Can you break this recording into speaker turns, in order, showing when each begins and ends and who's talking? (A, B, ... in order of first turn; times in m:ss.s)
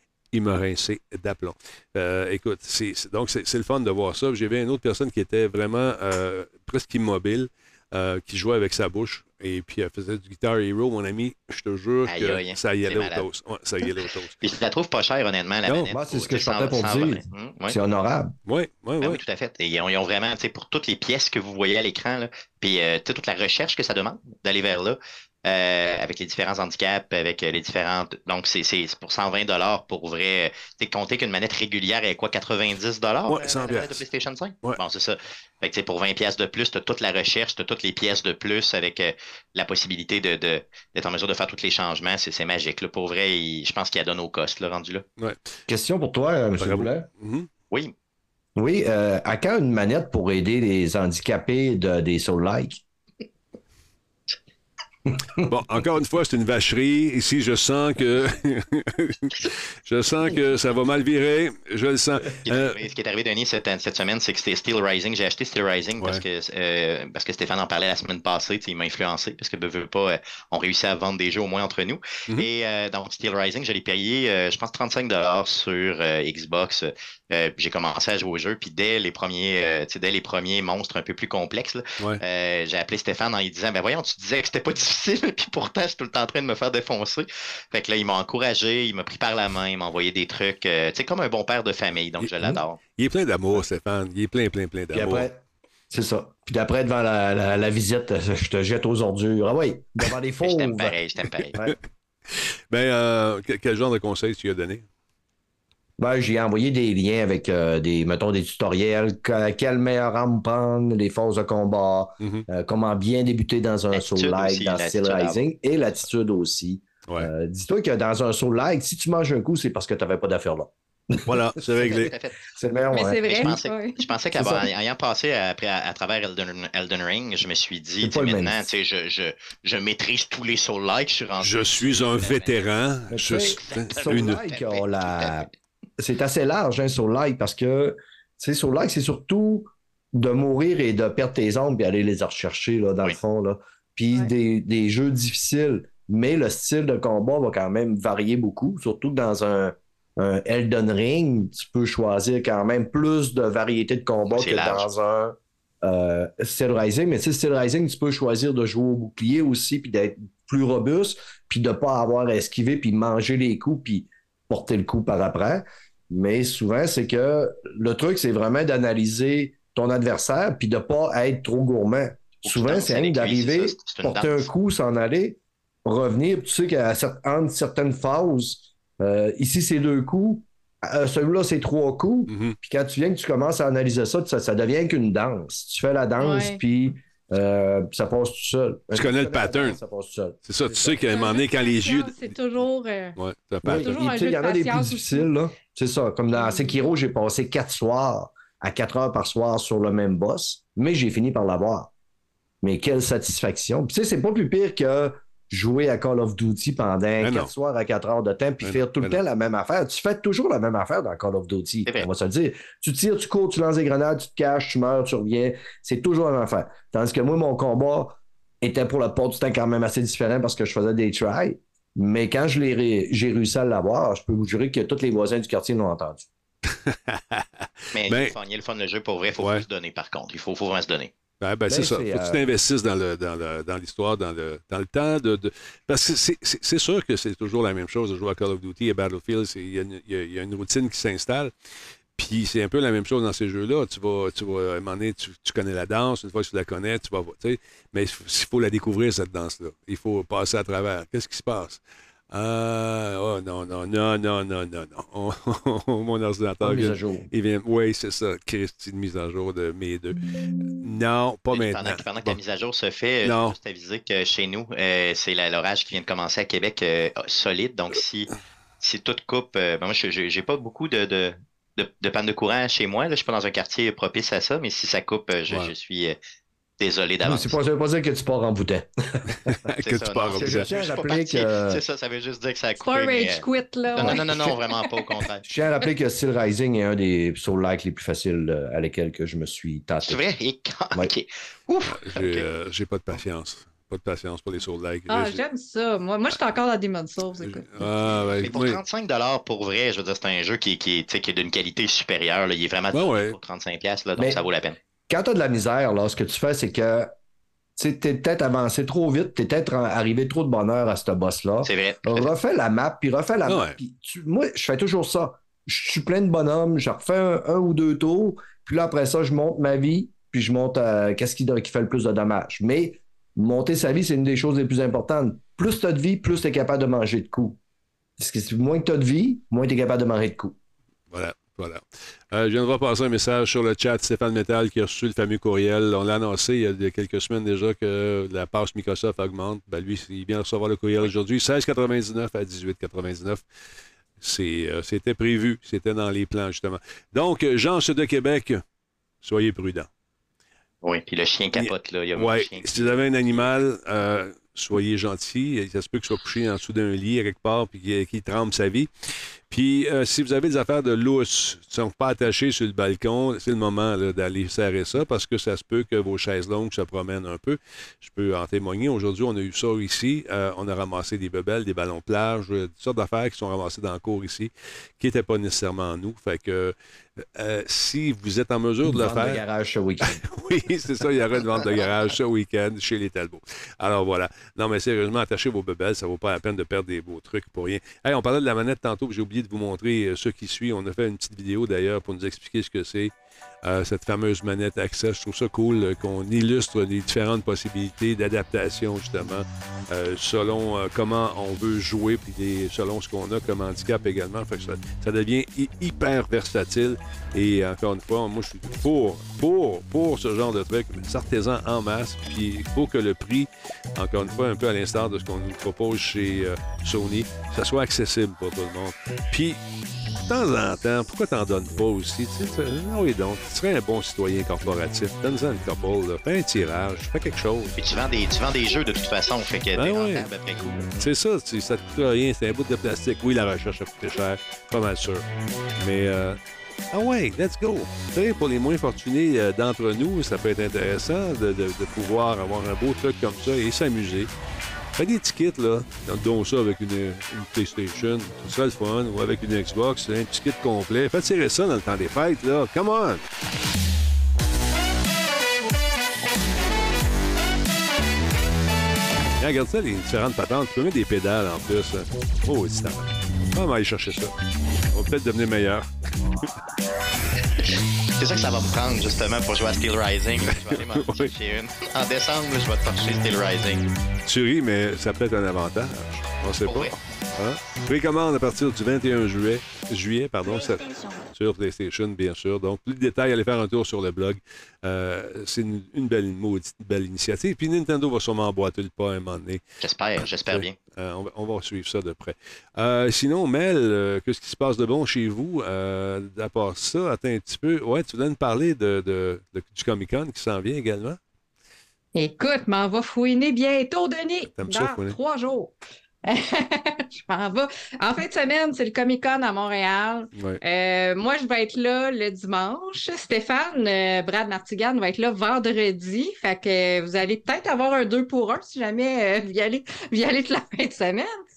0:00.3-0:14.4 A
0:12.1-0:13.3 B
0:14.4-0:17.8 B
0:15.7-0:15.9 A
0:15.9-0:18.3 C
0:18.5-0:19.2 A
0:19.0-0:45.0 B
0:33.3-0:34.0 A
0:45.7-0:47.1 C
0:46.6-0:47.5 A
0:48.6-0:52.8 C
0:55.5-1:02.8 A
1:02.4-1:32.8 B
1:32.2-1:35.3 A
1:34.9-1:35.4 C
1:35.9-1:41.0 C
1:40.4-1:41.6 B
1:42.3-1:44.8 A
1:46.0-2:01.2 C
1:53.9-1:55.4 B
2:01.3-2:02.1 A
2:01.8-2:02.5 B
2:02.6-2:03.6 C
2:02.9-2:04.0 D
2:03.2-2:12.6 B
2:04.3-2:04.7 C
2:08.0-2:08.7 C
2:11.4-2:14.4 A
2:13.1-3:11.0 C
2:13.4-2:15.4 B
2:34.3-2:34.8 B
2:52.4-2:54.5 B
3:02.3-3:02.6 A
3:06.2-3:06.6 D
3:08.9-3:09.8 A
3:10.5-3:12.4 A
3:11.1-3:13.2 D
3:13.2-3:13.9 A
3:13.6-3:21.9 C
3:13.7-3:15.3 D
3:16.3-3:16.8 D
3:22.6-3:46.3 C
3:27.2-3:27.5 A
3:28.6-3:29.2 A
3:46.7-3:48.3 A
3:47.9-3:51.1 B
3:49.4-3:49.6 A
3:51.4-4:01.5 A
3:51.7-3:52.4 C
4:02.2-4:20.2 A
4:16.6-4:17.3 C
4:20.7-4:22.4 A
4:21.5-4:36.2 B
4:23.2-4:23.6 A
4:36.8-4:37.6 B
4:37.2-4:39.3 C
4:39.5-4:40.7 A
4:39.8-4:43.4 B
4:40.3-4:41.8 C
4:42.8-4:44.6 D
4:44.0-4:45.4 B
4:44.0-4:44.5 C
4:45.4-4:50.2 C
4:50.0-4:52.4 B
4:51.8-4:55.4 A
4:55.1-4:57.9 D
4:57.4-4:58.8 A
4:58.4-5:04.8 B
5:02.9-5:03.4 A
5:05.1-5:07.1 C
5:07.8-5:27.6 C
5:11.6-5:12.3 B
5:13.5-5:13.8 A
5:28.2-5:30.6 C
5:31.1-5:43.4 A
5:44.2-5:48.6 A
5:49.2-5:49.9 A
5:50.8-5:53.4 B
5:51.6-5:58.9 A
5:59.5-6:19.4 A
6:18.8-6:20.2 C
6:20.1-6:33.1 A
6:33.6-6:59.6 A
7:00.3-7:07.8 A
7:07.8-7:11.1 B
7:09.8-7:10.3 A
7:11.0-7:15.2 A
7:15.8-7:16.4 A
7:16.9-7:24.3 A
7:25.0-7:33.2 A
7:39.4-7:44.3 A
7:44.9-7:45.9 A
7:48.2-7:53.9 B
7:50.5-7:51.3 A
7:54.3-8:09.6 A
7:56.6-7:57.0 B
8:09.8-8:10.7 B
8:10.2-8:21.2 A
8:22.2-8:25.7 D
8:24.6-8:25.2 A
8:26.2-8:41.3 D
8:30.4-8:30.6 A